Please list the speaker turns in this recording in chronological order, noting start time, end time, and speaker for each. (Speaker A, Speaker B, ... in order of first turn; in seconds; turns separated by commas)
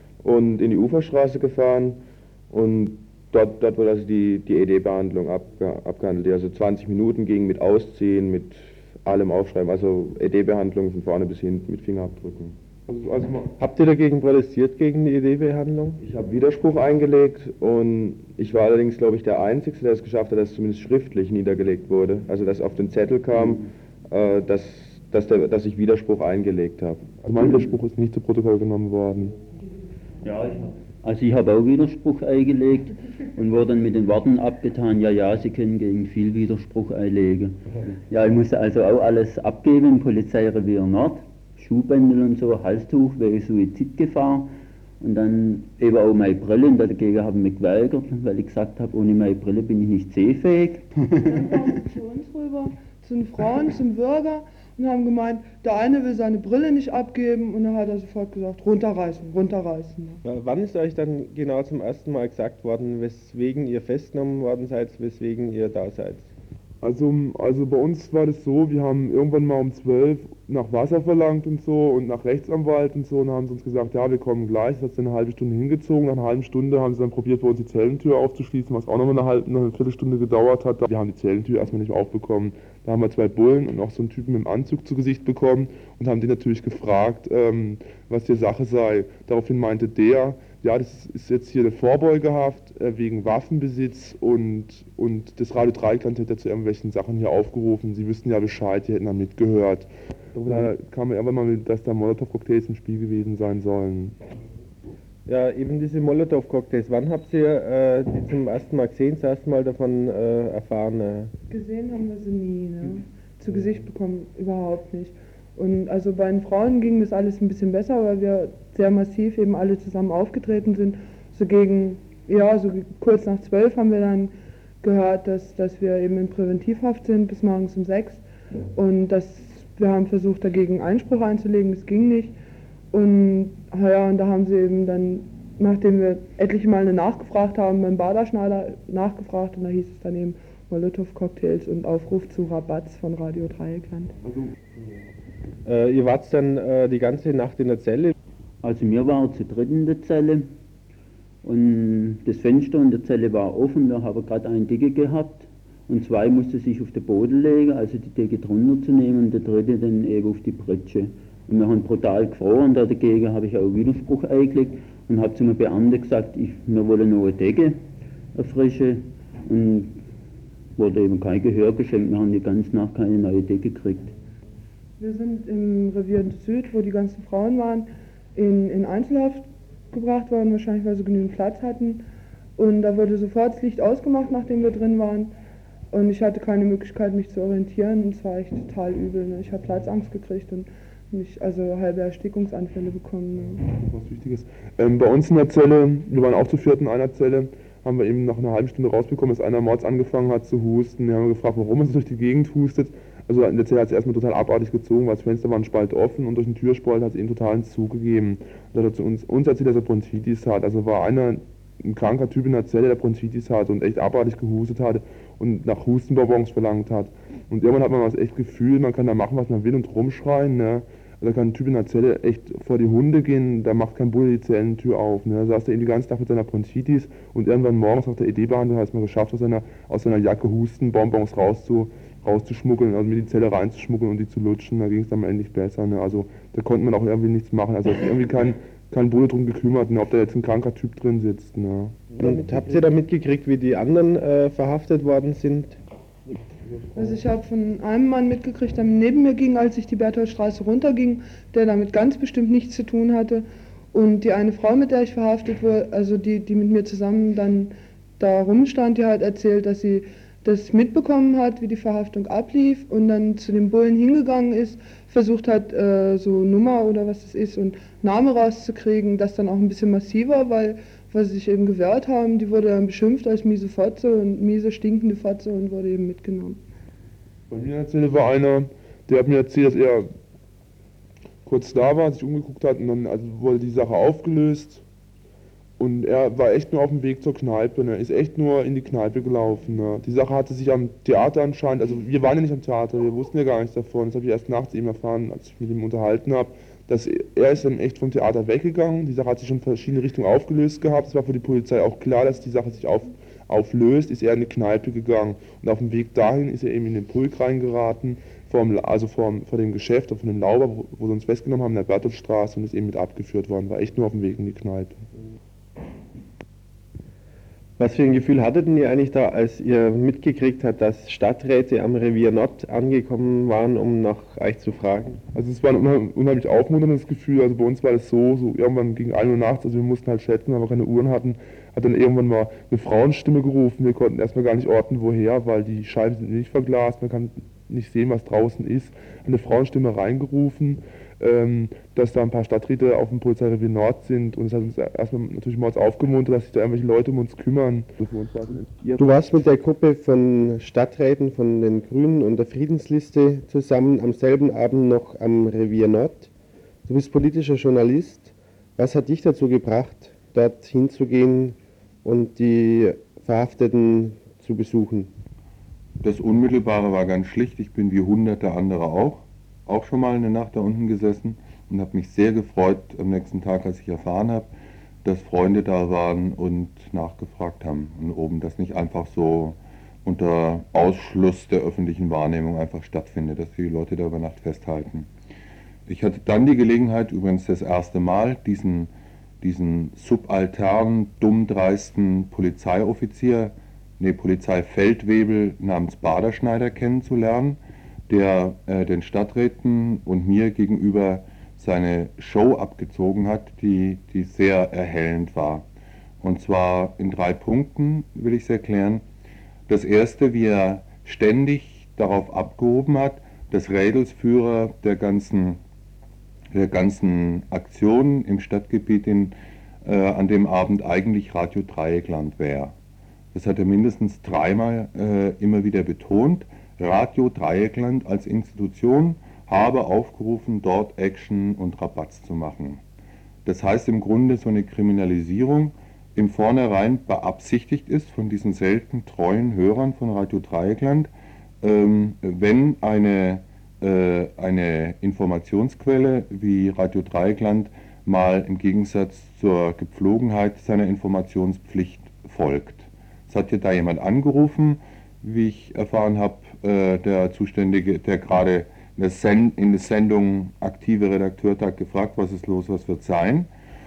Speaker A: 0.2-12.6, Speaker B: 12.9-13.5, Speaker C: 13.6-16.0, Speaker A: 16.0-27.2, Speaker B: 27.2-29.4, Speaker D: 30.2-50.9, Speaker E: 51.2-60.2, Speaker C: 60.2-66.3, Speaker B: 66.8-104.2, Speaker C: 105.3-111.3, Speaker E: 111.5-128.2, Speaker E: 128.8-132.3, Speaker E: 132.9-144.2, Speaker C: 145.7-148.1, Speaker D: 148.6-150.5, Speaker D: 151.4-167.8, Speaker D: 168.3-170.0, Speaker D: 170.8-174.1, Speaker E: 175.0-182.1, Speaker E: 182.6-185.3, Speaker E: 185.9-193.6, Speaker B: 193.7-242.0, Speaker A: 242.2-242.6, Speaker C: 242.2-245.8, Speaker E: 246.9-276.6, Speaker B: 277.5-280.1, Speaker B: 281.4-284.8, Speaker B: 285.8-315.0, Speaker C: 317.8-325.2, Speaker B: 325.4-349.2, Speaker C: 349.0-356.3, Speaker C: 356.9-365.1, Speaker F: 366.0-374.5, Speaker F: 375.0-385.1, Speaker F: 385.9-405.7, Speaker F: 406.2-409.0, Speaker F: 409.7-415.6, Speaker F: 416.5-422.8, Speaker F: 423.3-432.8, Speaker F: 433.4-441.1, Speaker F: 441.6-463.5